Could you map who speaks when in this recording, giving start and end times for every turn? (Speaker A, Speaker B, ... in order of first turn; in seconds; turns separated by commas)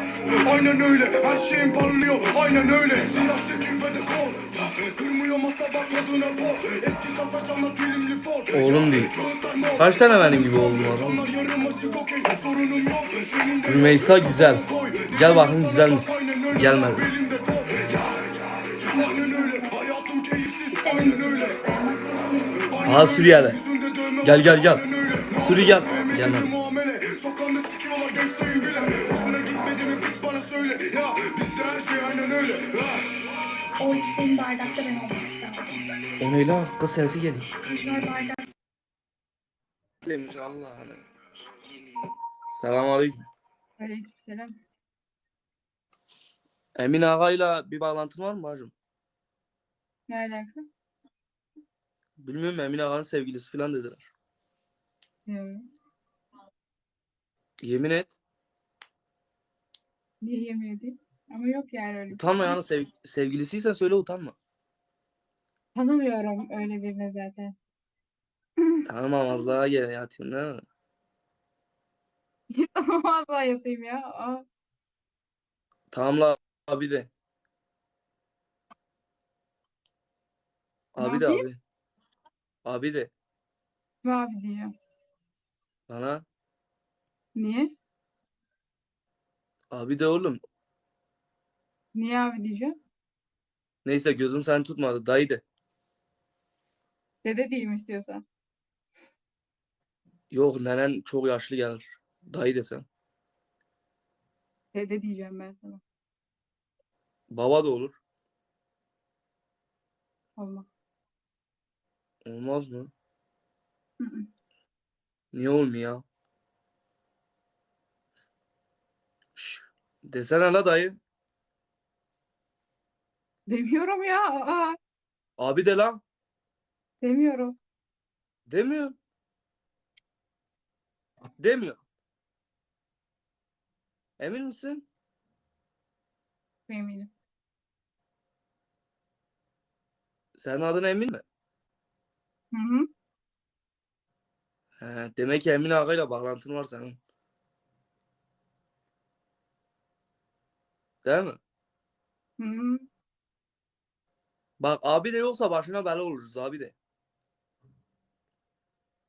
Speaker A: 0.4-18.1, Speaker B: 8.5-9.1, Speaker B: 9.8-11.2, Speaker C: 10.3-12.1, Speaker B: 13.7-17.1, Speaker C: 18.9-19.8, Speaker A: 18.9-21.6, Speaker C: 20.7-23.6, Speaker A: 22.7-33.0, Speaker B: 22.9-23.6, Speaker B: 24.2-24.8, Speaker B: 25.4-26.5, Speaker C: 28.6-29.4, Speaker C: 33.8-35.7, Speaker B: 36.2-37.5, Speaker C: 37.6-38.4, Speaker B: 40.0-41.0, Speaker B: 42.5-43.2, Speaker D: 43.8-44.5, Speaker B: 46.8-48.7, Speaker D: 50.1-50.6, Speaker B: 52.2-54.1, Speaker D: 55.3-55.6, Speaker B: 57.6-58.1, Speaker D: 60.2-62.6, Speaker B: 62.1-64.3, Speaker D: 65.7-67.5, Speaker B: 68.8-70.6, Speaker D: 72.5-74.4, Speaker B: 75.9-77.1, Speaker B: 81.0-81.6, Speaker D: 81.0-81.5, Speaker B: 82.6-83.1, Speaker D: 84.0-84.7, Speaker B: 85.9-86.2, Speaker D: 87.3-87.7, Speaker B: 89.7-90.4, Speaker D: 91.9-92.8, Speaker B: 93.8-95.4, Speaker D: 97.2-98.2, Speaker B: 100.3-102.8, Speaker D: 104.7-105.8, Speaker B: 107.3-108.0, Speaker D: 110.4-110.7, Speaker B: 112.2-112.9, Speaker D: 114.0-114.3, Speaker B: 115.3-116.0, Speaker B: 119.3-121.0, Speaker D: 123.5-124.8, Speaker B: 125.4-126.0, Speaker D: 127.0-127.5, Speaker B: 128.5-129.0, Speaker B: 131.4-131.8, Speaker B: 134.2-134.8, Speaker D: 136.7-137.1, Speaker B: 140.3-141.2, Speaker D: 142.5-142.9, Speaker B: 144.8-147.0, Speaker B: 151.0-151.4, Speaker D: 152.4-152.8, Speaker B: 154.6-156.7